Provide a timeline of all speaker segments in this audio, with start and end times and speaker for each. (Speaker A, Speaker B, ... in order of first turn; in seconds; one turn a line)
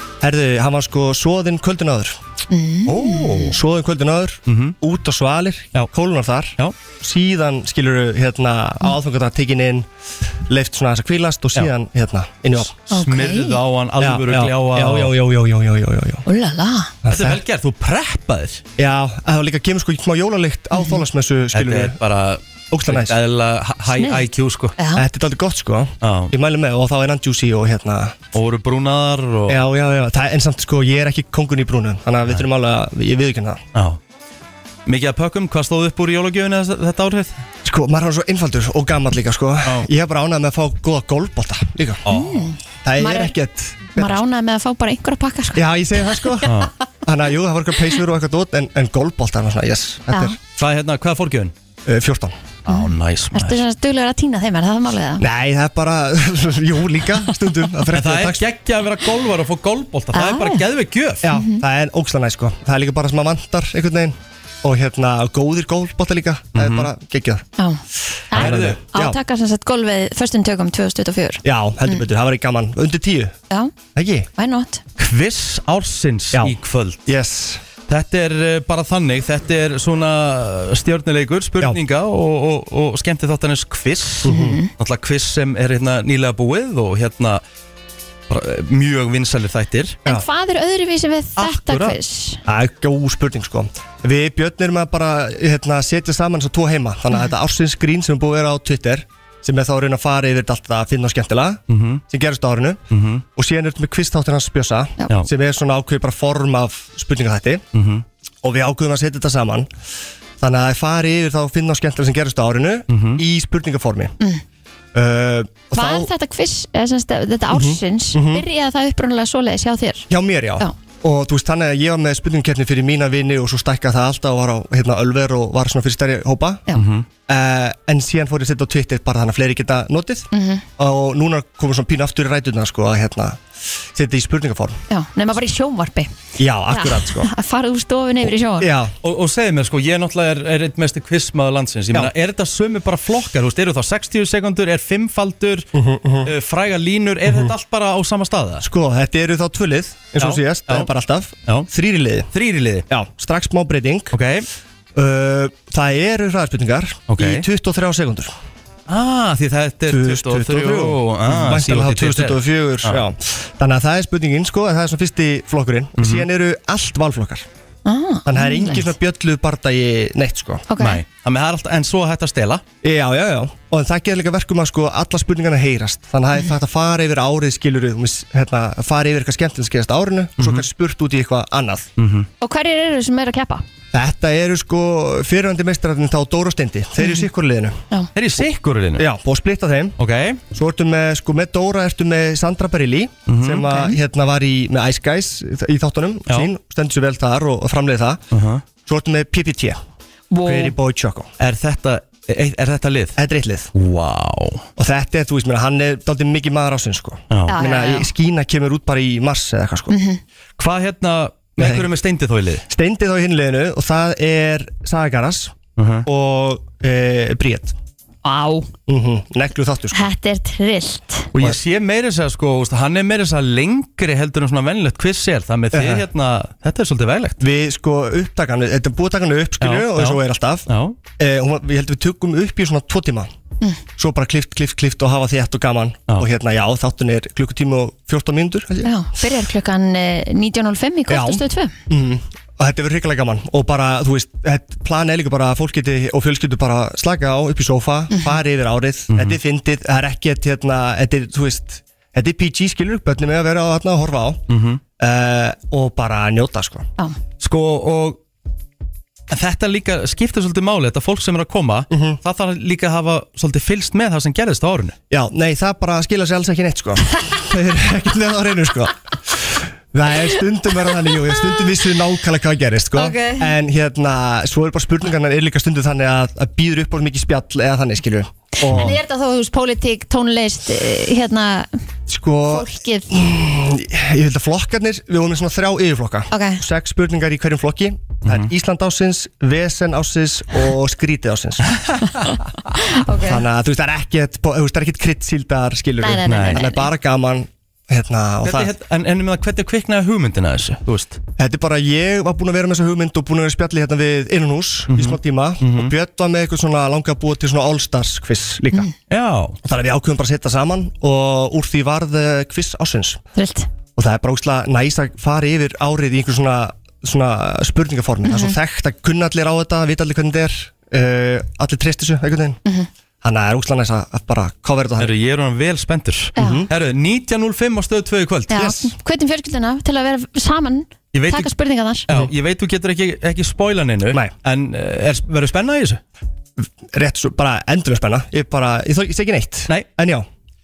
Speaker A: 0.2-2.2
Speaker B: 2.5-3.6
Speaker A: 2.9-9.9
Speaker C: 4.5-4.8
Speaker A: 10.4-12.7
Speaker C: 12.6-15.1
Speaker B: 12.9-13.6
Speaker A: 14.0-16.2
Speaker B: 16.2-16.9
Speaker A: 17.0-17.4
Speaker C: 17.1-18.6
Speaker A: 18.8-22.0
Speaker B: 20.7-21.0
Speaker C: 21.5-24.8
Speaker A: 22.7-23.1
Speaker B: 23.9-25.0
Speaker A: 24.9-28.2
Speaker C: 26.0-26.3
Speaker C: 28.3-29.6
Speaker A: 29.5-33.6
Speaker C: 33.7-34.0
Speaker C: 34.9-37.4
Speaker A: 37.6-42.0
Speaker C: 39.6-39.9
Speaker C: 42.0-42.5
Speaker B: 42.1-43.3
Speaker A: 42.8-44.2
Speaker B: 44.0-46.5
Speaker A: 45.5-50.4
Speaker C: 46.4-46.7
Speaker C: 50.5-51.5
Speaker A: 51.9-52.4
Speaker C: 52.6-53.6
Speaker B: 52.7-55.2
Speaker A: 55.2-58.4
Speaker C: 57.9-61.3
Speaker B: 60.1-60.6
Speaker A: 61.2-67.4
Speaker B: 61.3-61.6
Speaker C: 66.5-66.9
Speaker B: 67.6-72.0
Speaker A: 68.3-69.2
Speaker C: 68.3-68.8
Speaker A: 71.4-73.3
Speaker A: 73.9-74.3
Speaker B: 74.3-74.8
Speaker C: 75.0-77.0
Speaker A: 76.3-77.6
Speaker C: 77.9-87.4
Speaker A: 84.2-84.6
Speaker B: 84.2-84.7
Speaker C: 88.3-90.0
Speaker B: 90.0-92.4
Speaker C: 91.4-92.0
Speaker A: 92.5-102.8
Speaker C: 101.7-102.0
Speaker C: 102.9-103.2
Speaker A: 103.3-107.6
Speaker C: 107.7-108.0
Speaker A: 108.4-109.7
Speaker A: 110.4-114.1
Speaker C: 112.9-113.2
Speaker A: 114.9-116.1
Speaker B: 115.7-120.7
Speaker A: 117.5-118.4
Speaker A: 120.1-126.6
Speaker C: 126.7-127.1
Speaker A: 127.3-134.8
Speaker B: 130.3-130.6
Speaker B: 134.9-136.1
Speaker A: 136.4-137.3
Speaker B: 136.7-138.7
Speaker A: 138.6-138.9
Speaker C: 139.0-145.7
Speaker A: 145.7-146.3
Speaker C: 146.2-148.7
Speaker A: 148.6-152.3
Speaker C: 150.2-150.9
Speaker C: 152.3-152.9
Speaker A: 152.9-154.2
Speaker C: 154.1-154.5
Speaker A: 154.9-158.3
Speaker C: 157.1-157.5
Speaker C: 158.9-163.0
Speaker A: 159.9-167.5
Speaker C: 166.0-166.3
Speaker B: 167.8-168.9
Speaker A: 168.2-170.7
Speaker B: 170.7-171.0
Speaker C: 170.8-172.6
Speaker A: 172.8-181.9
Speaker C: 180.4-180.7
Speaker C: 182.0-182.3
Speaker B: 182.4-183.6
Speaker A: 183.9-187.8
Speaker B: 187.0-187.2
Speaker C: 188.1-189.1
Speaker A: 189.0-190.0
Speaker C: 190.0-190.4
Speaker A: 190.5-198.2
Speaker C: 193.3-193.7
Speaker B: 193.7-194.0
Speaker C: 198.3-198.6
Speaker A: 198.8-199.8
Speaker B: 200.3-200.7
Speaker A: 200.4-201.3
Speaker C: 201.4-203.2
Speaker A: 203.2-203.7
Speaker C: 203.7-204.7
Speaker A: 204.8-209.9
Speaker C: 207.3-207.6
Speaker B: 207.5-208.1
Speaker B: 209.9-210.2
Speaker C: 210.6-212.6
Speaker A: 211.6-211.8
Speaker A: 212.7-217.7
Speaker C: 215.8-216.1
Speaker B: 218.2-218.7
Speaker A: 218.9-220.1
Speaker B: 219.9-221.3
Speaker C: 221.3-227.4
Speaker A: 225.7-226.0
Speaker A: 227.4-233.3
Speaker C: 229.6-231.0
Speaker A: 234.0-238.9
Speaker B: 238.8-241.7
Speaker A: 241.1-254.4
Speaker B: 248.1-248.4
Speaker C: 249.1-249.4
Speaker C: 254.5-254.8
Speaker A: 255.0-256.9
Speaker C: 257.4-258.2
Speaker C: 259.3-264.9
Speaker A: 261.9-262.2
Speaker A: 265.1-279.0
Speaker B: 272.9-273.5
Speaker B: 278.6-281.7
Speaker C: 278.7-279.0
Speaker A: 282.1-291.8
Speaker B: 282.5-283.1
Speaker B: 286.3-286.6
Speaker C: 288.2-288.5
Speaker C: 291.7-292.3
Speaker B: 292.7-293.4
Speaker A: 293.1-298.7
Speaker B: 296.0-296.9
Speaker C: 296.2-296.7
Speaker C: 298.4-301.2
Speaker A: 301.4-308.9
Speaker C: 304.9-305.9
Speaker C: 309.1-309.6
Speaker A: 309.6-313.2
Speaker B: 313.4-313.7
Speaker A: 313.9-322.6
Speaker B: 318.2-318.6
Speaker A: 323.2-325.1
Speaker C: 325.0-328.7
Speaker B: 326.4-326.7
Speaker A: 326.4-326.7
Speaker B: 328.5-332.1
Speaker A: 328.5-328.9
Speaker C: 331.1-331.5
Speaker C: 332.1-336.0
Speaker A: 336.6-340.2